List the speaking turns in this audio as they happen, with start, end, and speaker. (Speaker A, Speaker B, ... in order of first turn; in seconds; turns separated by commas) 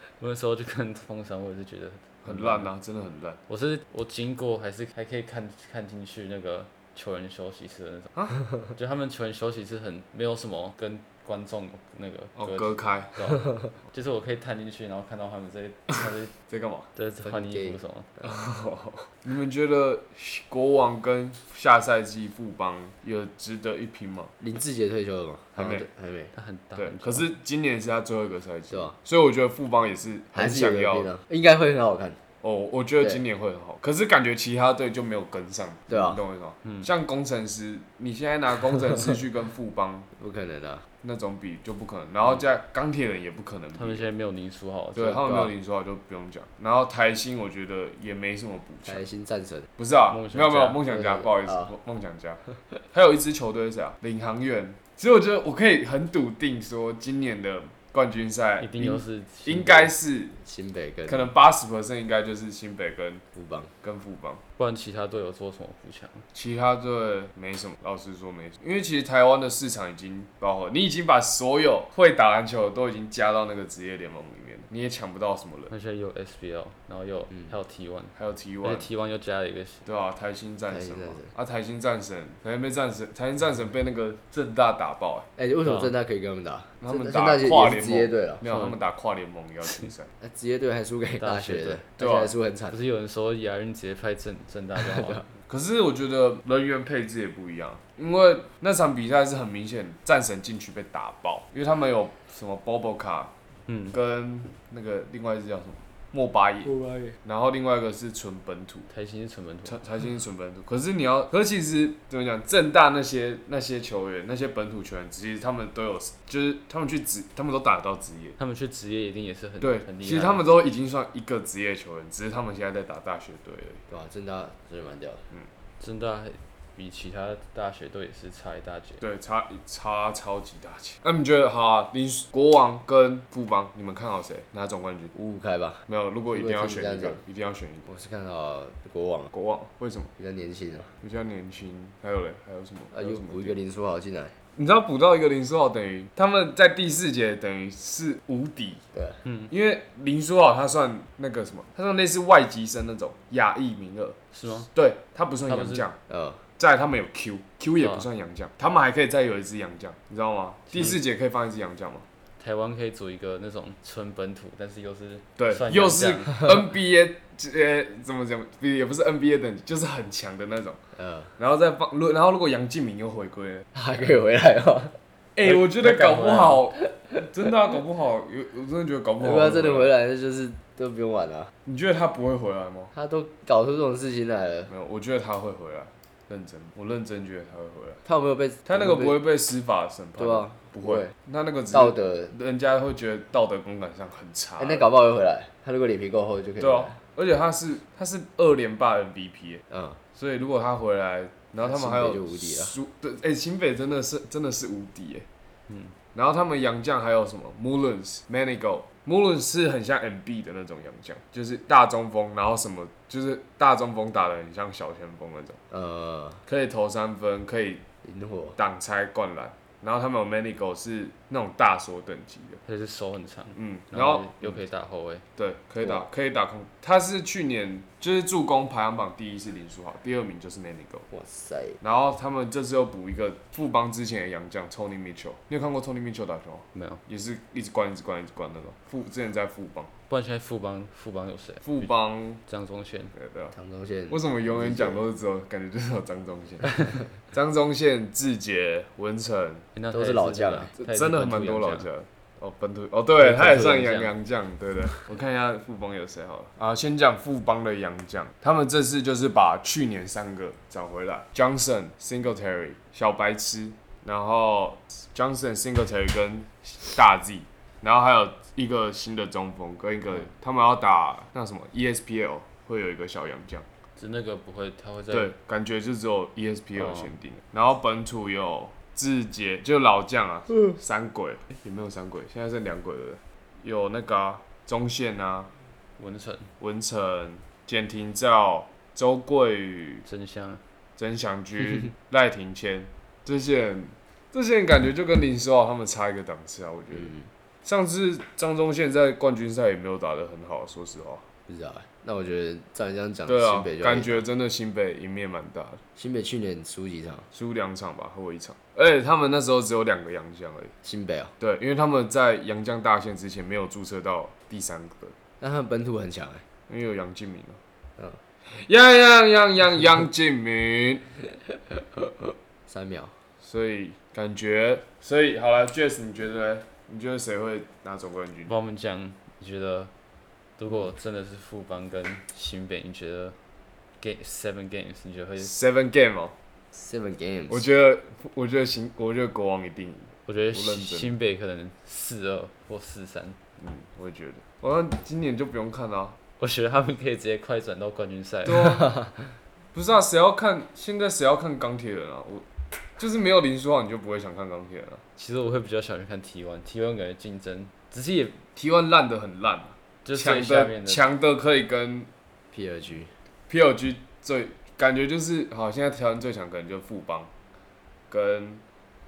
Speaker A: 0.2-2.7, Speaker B: 2.2-3.4, Speaker A: 3.5-16.3, Speaker B: 12.3-13.3, Speaker B: 16.5-16.9, Speaker A: 16.9-18.1, Speaker C: 17.2-17.8, Speaker B: 18.2-24.3, Speaker C: 24.4-26.3, Speaker B: 25.6-25.9, Speaker A: 26.3-27.2, Speaker B: 26.8-31.1, Speaker C: 30.3-32.2, Speaker B: 32.4-40.1, Speaker C: 35.9-36.2, Speaker C: 40.2-40.9, Speaker B: 41.0-44.0, Speaker A: 43.7-45.3, Speaker B: 45.0-49.0, Speaker C: 45.2-45.5, Speaker C: 48.9-49.7, Speaker B: 49.8-52.4, Speaker A: 50.1-50.8, Speaker C: 50.9-51.7, Speaker B: 52.9-60.4, Speaker A: 58.6-59.9, Speaker C: 60.4-61.3, Speaker B: 61.1-63.2, Speaker C: 63.3-63.7, Speaker B: 63.8-64.4, Speaker A: 64.6-66.2, Speaker B: 66.3-75.7, Speaker A: 75.7-79.8, Speaker B: 78.2-78.9, Speaker B: 79.8-85.3, Speaker C: 80.7-81.3, Speaker C: 85.4-88.4, Speaker A: 85.6-85.9, Speaker B: 86.8-90.1, Speaker A: 88.5-88.8, Speaker C: 90.2-92.8, Speaker A: 91.2-91.8, Speaker B: 92.0-92.3, Speaker A: 92.7-95.3, Speaker C: 94.9-95.2, Speaker B: 95.5-103.3, Speaker A: 103.7-104.0, Speaker B: 103.9-108.9, Speaker C: 106.8-107.1, Speaker A: 108.9-109.8, Speaker B: 109.6-118.4, Speaker A: 118.4-120.5, Speaker B: 119.6-123.8, Speaker C: 123.9-125.2, Speaker A: 125.8-129.0, Speaker B: 129.0-135.1, Speaker C: 135.1-137.2, Speaker B: 135.9-137.9, Speaker C: 137.9-139.3, Speaker B: 139.3-140.1, Speaker C: 140.2-140.9, Speaker B: 141.0-143.6, Speaker C: 142.9-144.3, Speaker B: 144.6-148.8, Speaker C: 148.9-149.2, Speaker A: 149.2-149.5, Speaker B: 149.5-156.0, Speaker A: 154.3-154.7, Speaker A: 155.5-155.8, Speaker C: 156.1-156.4, Speaker B: 156.6-162.1, Speaker A: 157.8-158.1, Speaker A: 160.7-161.0, Speaker A: 162.4-166.5, Speaker B: 165.4-170.8, Speaker C: 171.0-171.3, Speaker B: 171.4-173.7, Speaker C: 173.7-174.9, Speaker B: 175.3-179.9, Speaker A: 175.5-176.6, Speaker C: 179.2-181.5, Speaker B: 181.6-182.9, Speaker C: 182.9-184.7, Speaker B: 184.7-188.0, Speaker C: 188.0-189.2, Speaker B: 188.7-194.9, Speaker C: 190.2-191.1, Speaker C: 191.7-192.3, Speaker C: 194.6-196.9, Speaker B: 196.6-199.6, Speaker C: 199.7-200.0, Speaker B: 200.1-205.2, Speaker C: 201.6-202.8, Speaker A: 205.7-205.9, Speaker B: 206.1-215.6, Speaker C: 215.7-216.4, Speaker B: 216.5-217.8, Speaker C: 218.0-218.6, Speaker B: 218.6-222.6, Speaker A: 222.7-225.2, Speaker B: 223.5-224.6, Speaker B: 225.4-231.1, Speaker C: 225.8-226.1, Speaker C: 231.1-231.8, Speaker B: 231.8-239.9, Speaker A: 236.7-237.0, Speaker A: 240.1-241.9, Speaker B: 241.6-242.4, Speaker A: 242.4-243.1, Speaker B: 243.1-243.5, Speaker C: 243.5-245.0, Speaker B: 244.1-249.7, Speaker A: 249.7-251.9, Speaker C: 249.9-250.7, Speaker B: 250.8-273.6, Speaker A: 253.2-254.1, Speaker A: 274.0-275.3, Speaker B: 275.1-285.5, Speaker A: 276.8-277.1, Speaker A: 286.0-286.5, Speaker B: 286.6-290.0, Speaker A: 290.0-290.6, Speaker B: 291.0-301.2, Speaker C: 301.5-304.2, Speaker B: 303.3-305.8, Speaker C: 305.9-307.3, Speaker B: 307.3-310.7, Speaker C: 310.8-311.3, Speaker B: 311.4-315.1, Speaker C: 315.4-316.4, Speaker B: 316.7-317.6, Speaker B: 318.5-321.2, Speaker C: 322.7-323.1, Speaker B: 323.4-328.5, Speaker A: 328.5-329.9, Speaker A: 330.6-333.4, Speaker A: 334.0-335.5, Speaker B: 335.4-336.3, Speaker C: 336.7-337.6, Speaker B: 337.5-341.1, Speaker A: 340.2-343.4, Speaker B: 343.6-346.2, Speaker A: 346.4-348.9, Speaker B: 348.4-348.9, Speaker B: 349.7-352.4, Speaker B: 353.0-355.0, Speaker A: 355.2-358.4, Speaker B: 358.6-362.1, Speaker A: 360.0-361.0, Speaker C: 362.5-363.1, Speaker B: 363.5-367.3, Speaker B: 368.1-368.6